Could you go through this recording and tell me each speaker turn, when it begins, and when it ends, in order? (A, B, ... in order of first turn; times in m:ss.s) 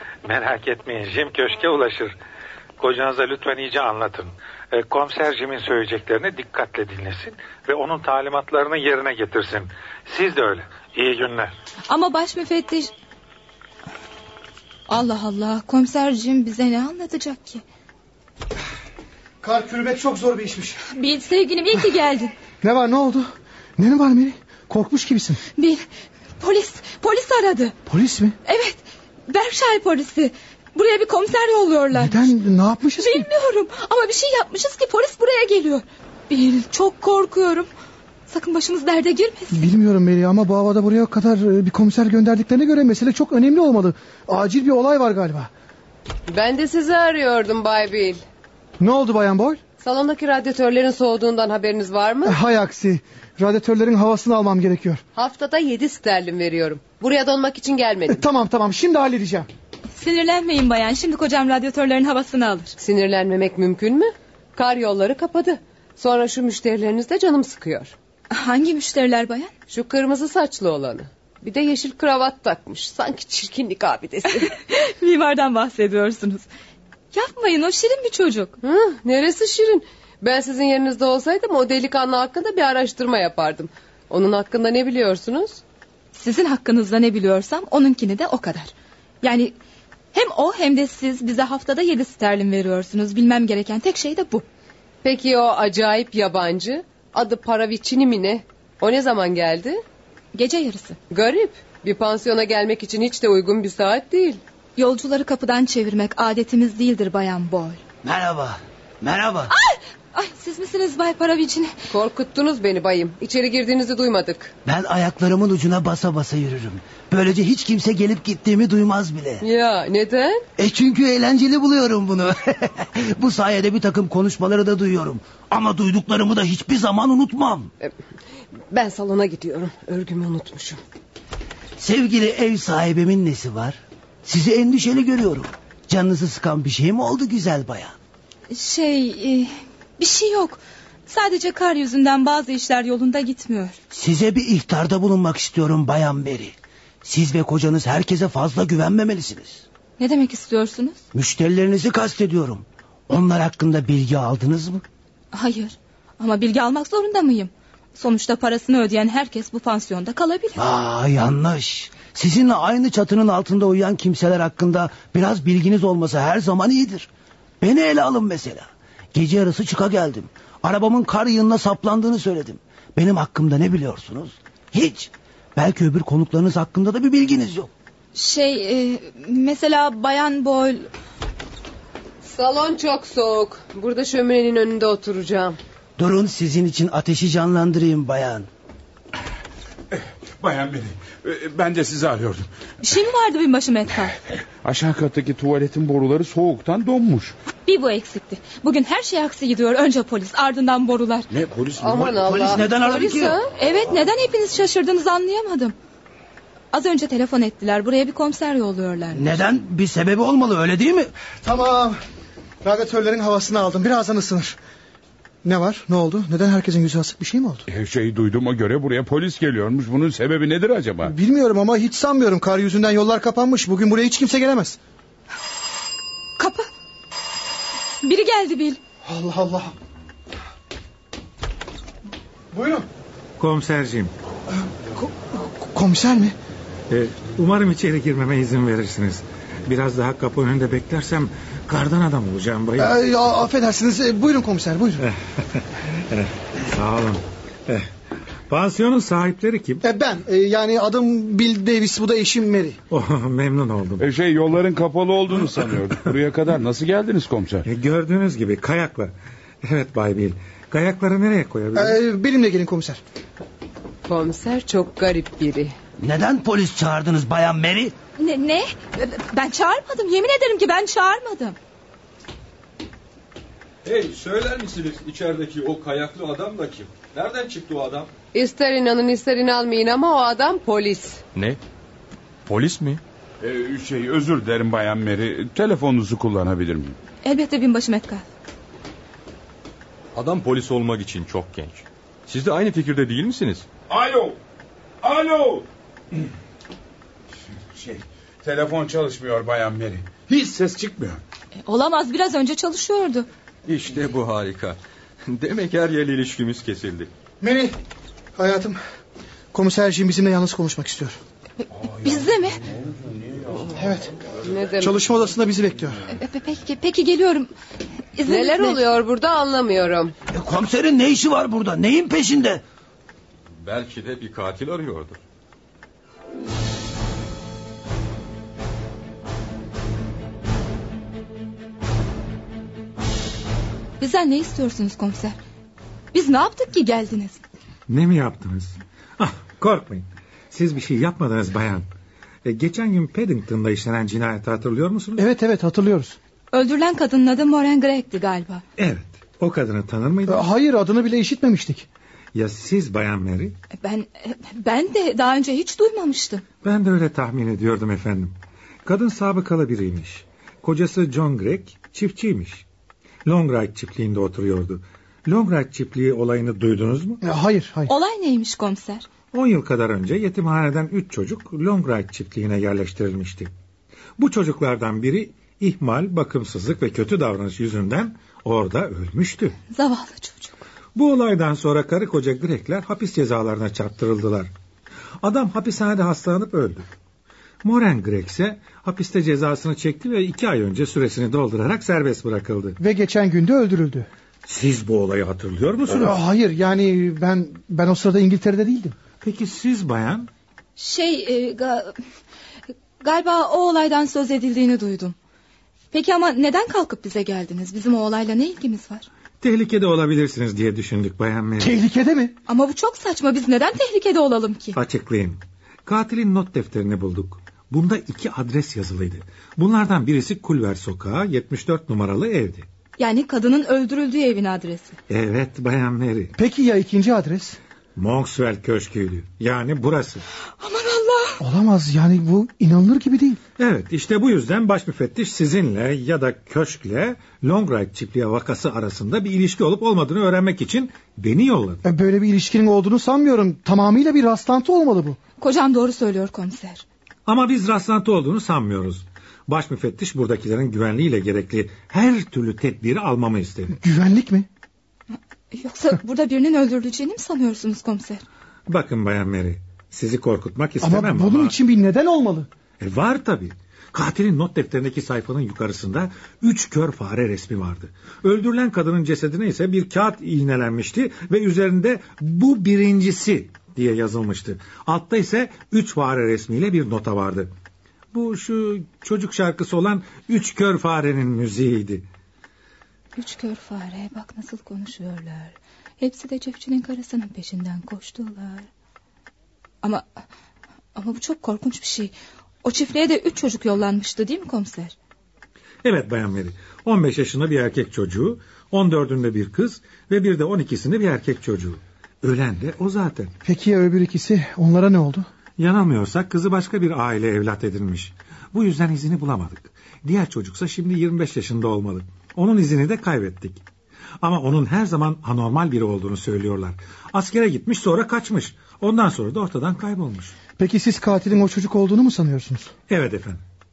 0:00.2-0:02.2 A
0:02.8-0:11.5 A
0:11.9-0:12.9 B
0:14.9-0:17.6 B
0:19.4-0:20.8 C
0:20.9-0:22.3 B
0:22.6-0:25.4 C
0:25.6-0:25.8 B
0:26.4-0:27.8 B
0:27.9-0:28.4 C
0:28.4-0:32.3 B
0:31.9-0:33.3 C
0:33.0-0:37.7 B
0:38.3-0:39.7 B
0:39.5-0:45.5 C
0:46.3-0:48.2 D
0:48.8-0:49.6 C
0:49.8-0:52.4 D
0:52.2-0:55.0 C
0:55.2-0:58.2 D
0:58.1-0:59.5 C
1:00.0-1:02.8 B
1:02.8-1:07.9 D
1:08.3-1:09.5 B
1:09.7-1:14.5 D
1:14.4-1:16.5 B
1:17.1-1:18.6 B
1:18.6-1:25.6 D
1:26.1-1:29.6 B
1:30.1-1:34.4 B
1:35.0-1:39.8 D
1:40.3-1:41.0 B
1:41.1-1:44.4 D
1:44.8-1:47.8 B
1:48.0-1:49.5 E
1:49.5-1:51.7 B
1:51.9-1:54.5 D
1:54.6-1:59.4 E
1:59.4-2:00.4 D
2:00.6-2:07.7 E
2:08.7-2:10.8 D
2:11.8-2:18.0 E
2:18.5-2:23.8 B
2:23.9-2:29.6 E
2:30.0-2:31.0 B
2:31.1-2:34.8 E
2:35.3-2:40.6 B
2:40.6-2:47.1 E
2:47.6-2:57.7 E
2:58.2-3:00.9 B
3:02.2-3:05.6 D
3:06.0-3:08.5 E
3:10.4-3:12.5 F
3:12.8-3:14.2 B
3:14.6-3:17.4 F
3:17.7-3:21.3 B
3:21.3-3:22.4 F
3:21.8-3:23.5 D
3:22.2-3:23.4 E
3:23.6-3:25.8 B
3:26.7-3:29.3 B
3:29.1-3:31.1 E
3:31.4-3:32.0 C
3:32.6-3:34.6 C
3:35.4-3:37.6 C
3:37.7-3:41.1 F
3:41.0-3:44.8 C
3:46.4-3:46.7 B
3:48.0-3:48.8 B
3:49.0-3:49.7 C
3:52.5-3:52.9 C
3:53.4-3:54.1 G
3:54.5-3:56.4 C
3:56.9-4:03.0 G
4:02.8-4:05.1 C
4:05.0-4:07.9 G
4:08.5-4:09.8 G
4:09.8-4:12.8 C
4:12.9-4:14.1 G
4:14.0-4:17.7 F
4:17.6-4:22.0 G
4:21.8-4:23.0 C
4:24.1-4:25.8 D
4:26.0-4:28.0 E
4:28.2-4:31.6 B
4:33.8-4:38.1 H
4:38.3-4:41.2 D
4:42.5-4:43.0 H
4:43.4-4:47.0 F
4:47.2-4:48.2 B
4:50.2-4:53.7 H
4:53.9-4:54.4 F
4:55.0-4:55.7 F
4:57.5-5:01.2 F
5:01.6-5:03.3 B
5:03.7-5:07.1 H
5:07.4-5:07.8 C
5:08.4-5:08.8 C
5:09.5-5:11.2 C
5:11.6-5:12.6 B
5:12.9-5:13.4 F
5:13.8-5:14.1 C
5:14.4-5:15.0 D
5:14.8-5:16.0 C
5:16.1-5:17.5 B
5:18.2-5:18.8 B
5:18.3-5:20.2 D
5:20.3-5:22.6 E
5:23.6-5:25.2 H
5:34.0-5:35.4 B
5:36.1-5:37.4 B
5:37.9-5:41.9 G
5:42.4-5:45.3 G
5:45.2-5:46.2 C
5:46.5-5:48.6 B
5:48.8-5:50.5 G
5:50.3-5:51.9 C
5:52.3-5:53.6 G
5:53.8-5:56.4 B
5:56.6-5:58.3 G
5:58.8-6:02.6 G
6:03.2-6:07.2 G
6:07.2-6:07.9 C
6:07.9-6:09.1 B
6:09.3-6:13.5 G
6:14.2-6:19.6 G
6:19.7-6:20.6 B
6:21.0-6:24.5 G
6:25.2-6:26.9 G
6:27.6-6:32.8 G
6:32.8-6:34.1 C
6:34.4-6:36.2 G
6:35.9-6:39.0 C
6:39.2-6:40.3 G
6:40.8-6:42.0 B
6:43.0-6:45.2 B
6:45.9-6:49.1 B
6:49.4-6:51.8 G
6:51.6-6:52.4 C
6:52.5-6:54.8 B
6:54.8-7:02.7 G
7:03.0-7:05.0 B
7:05.1-7:06.3 G
7:06.4-7:07.6 C
7:08.0-7:10.2 G
7:10.6-7:11.4 B
7:11.4-7:13.4 C
7:13.6-7:21.8 G
7:21.8-7:25.2 C
7:25.4-7:26.8 B
7:27.3-7:33.8 G
7:33.7-7:34.5 C
7:35.5-7:38.2 B
7:38.7-7:41.6 G
7:40.8-7:42.5 C
7:42.8-7:57.5 G
7:58.1-8:02.1 G
8:03.2-8:08.7 B
8:11.0-8:15.0 B
8:15.8-8:23.3 G
8:23.4-8:25.3 C
8:25.6-8:33.6 G
8:34.2-8:40.4 G
8:40.6-8:42.7 C
8:42.9-8:43.4 G